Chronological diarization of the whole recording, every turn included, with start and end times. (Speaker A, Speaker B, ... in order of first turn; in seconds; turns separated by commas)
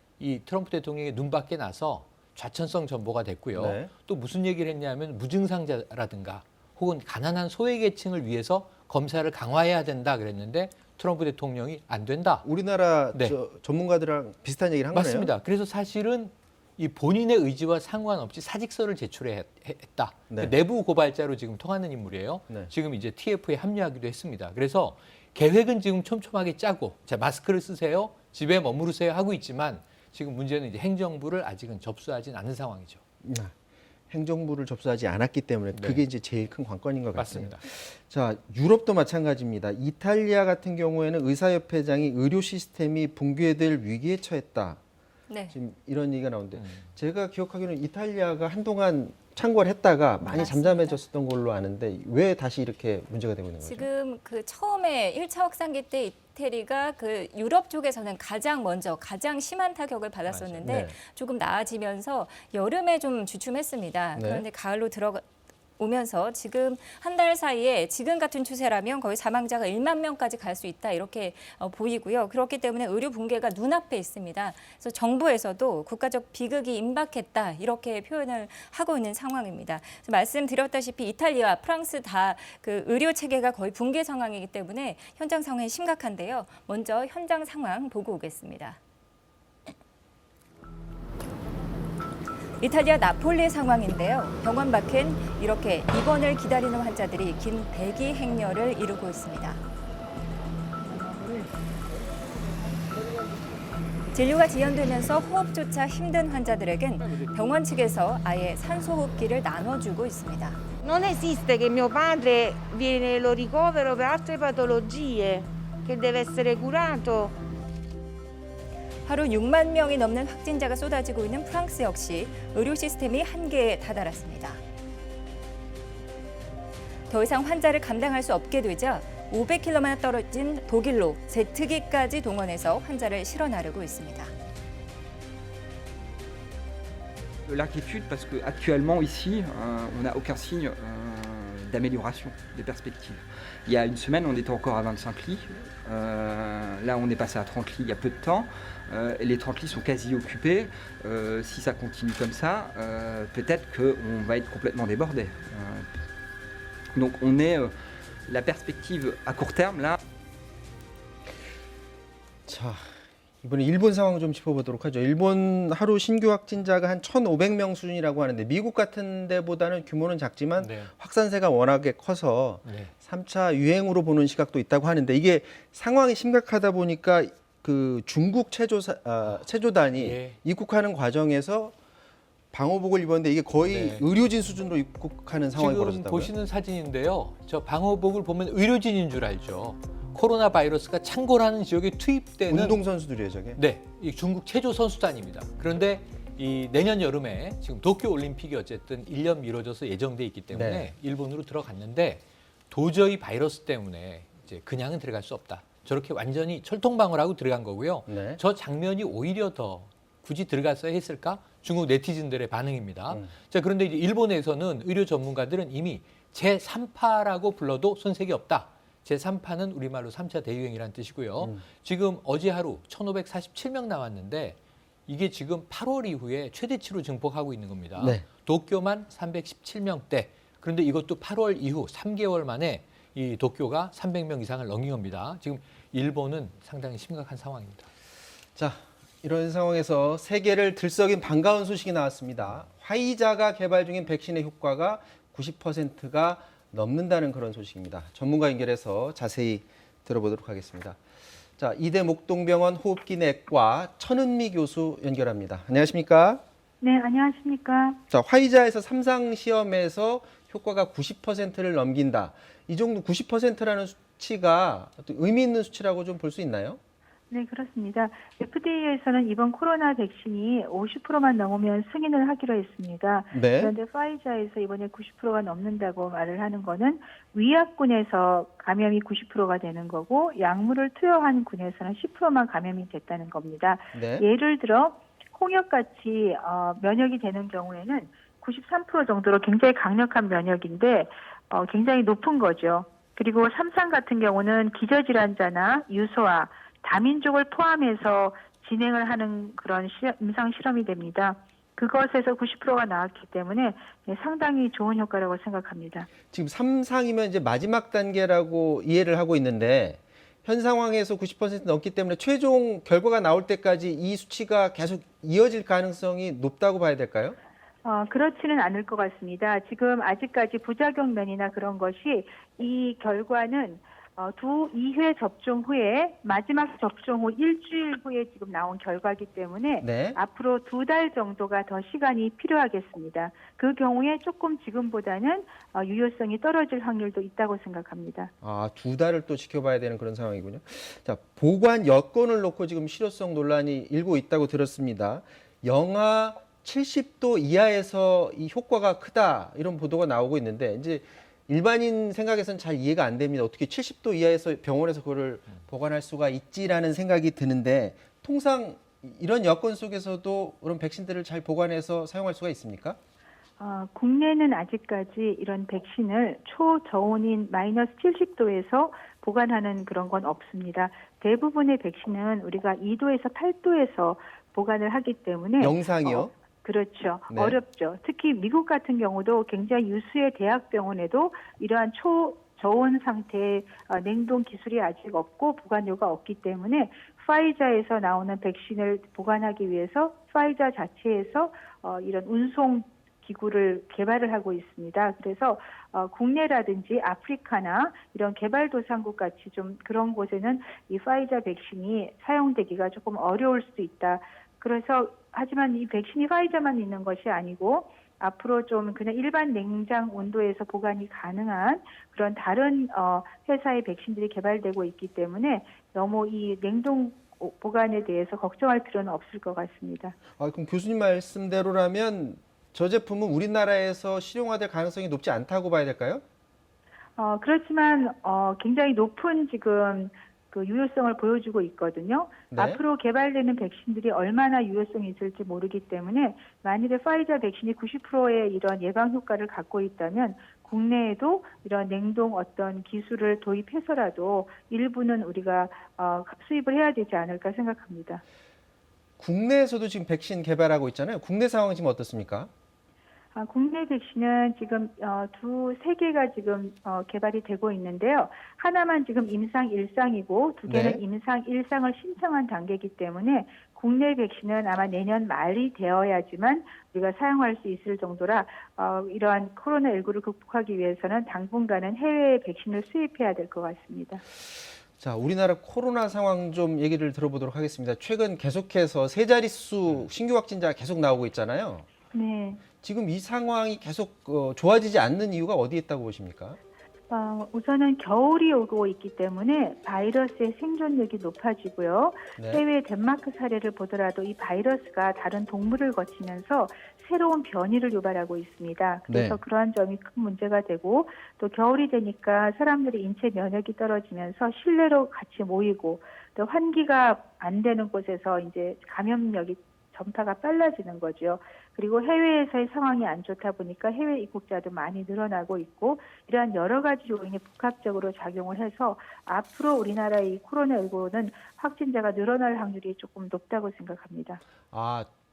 Speaker A: 0.2-12.5, Speaker B: 3.5-3.9, Speaker B: 12.4-15.3, Speaker A: 14.9-33.0, Speaker B: 33.2-33.5, Speaker B: 34.1-44.8, Speaker A: 35.7-36.0, Speaker A: 37.1-37.6, Speaker C: 45.3-45.6, Speaker B: 45.5-53.9, Speaker C: 50.2-51.0, Speaker C: 53.6-65.2, Speaker A: 60.3-60.6, Speaker B: 60.6-61.0, Speaker B: 64.2-64.5, Speaker C: 65.8-88.8, Speaker C: 92.6-99.6, Speaker C: 104.1-110.6, Speaker D: 110.8-117.3, Speaker C: 119.0-124.6, Speaker C: 127.1-134.3, Speaker E: 137.5-155.8, Speaker E: 157.0-157.7, Speaker E: 158.3-160.0, Speaker B: 162.5-181.7, Speaker A: 170.6-170.9, Speaker A: 172.6-172.9, Speaker A: 179.9-180.4, Speaker B: 182.5-186.3, Speaker A: 183.7-184.1, Speaker A: 185.6-192.8, Speaker B: 192.5-193.6, Speaker A: 193.6-237.9, Speaker B: 200.5-200.9, Speaker B: 208.1-208.4, Speaker B: 228.0-228.2, Speaker B: 238.6-251.0, Speaker B: 251.6-256.4, Speaker F: 256.8-258.0, Speaker B: 258.1-266.8, Speaker F: 267.3-306.1, Speaker B: 273.3-273.7, Speaker B: 283.9-284.2, Speaker B: 306.3-317.4, Speaker F: 317.8-338.3, Speaker B: 329.8-330.2, Speaker B: 338.4-363.0, Speaker F: 363.6-420.2, Speaker B: 375.6-376.3, Speaker B: 377.3-377.6, Speaker B: 420.4-426.2, Speaker F: 427.2-448.2, Speaker B: 432.5-432.8, Speaker B: 449.2-452.5, Speaker F: 453.3-474.2, Speaker B: 460.7-461.0, Speaker B: 475.0-481.9, Speaker F: 482.1-482.6, Speaker B: 482.8-486.6, Speaker F: 487.1-524.4, Speaker B: 492.4-492.6, Speaker B: 499.1-499.4, Speaker B: 524.7-525.1